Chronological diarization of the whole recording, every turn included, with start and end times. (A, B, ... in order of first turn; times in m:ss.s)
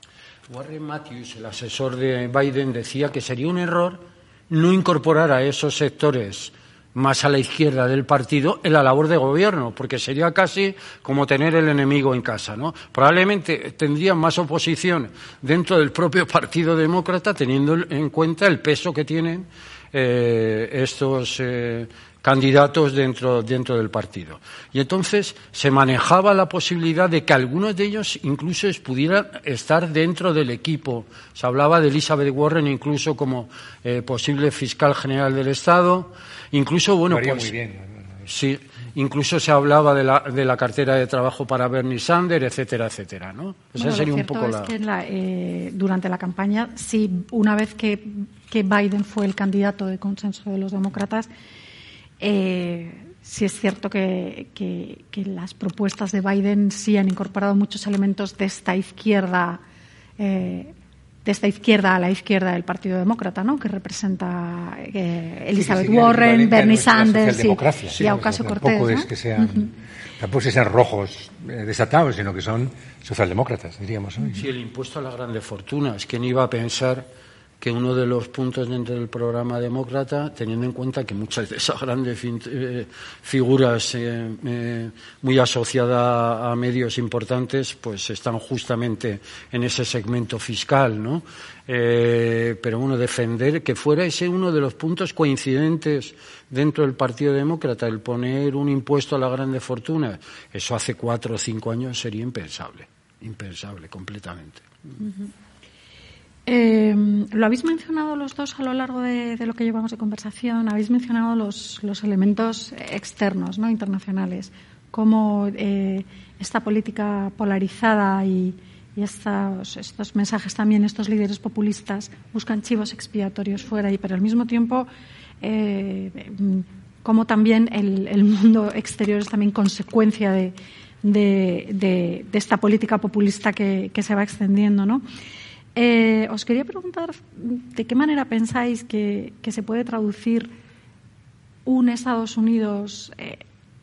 0:00.5-0:37.5 A
0:37.1-0:38.1 B
0:38.3-0:44.7 A
0:43.7-0:51.3 C
0:52.2-0:59.6 C
1:00.2-1:00.7 C
1:01.2-1:09.7 C
1:05.5-1:14.4 B
1:14.3-1:17.0 A
1:17.6-1:44.6 A
1:46.4-2:04.9 C
2:05.4-2:15.0 C
2:15.7-2:20.5 C
2:21.6-2:23.4 C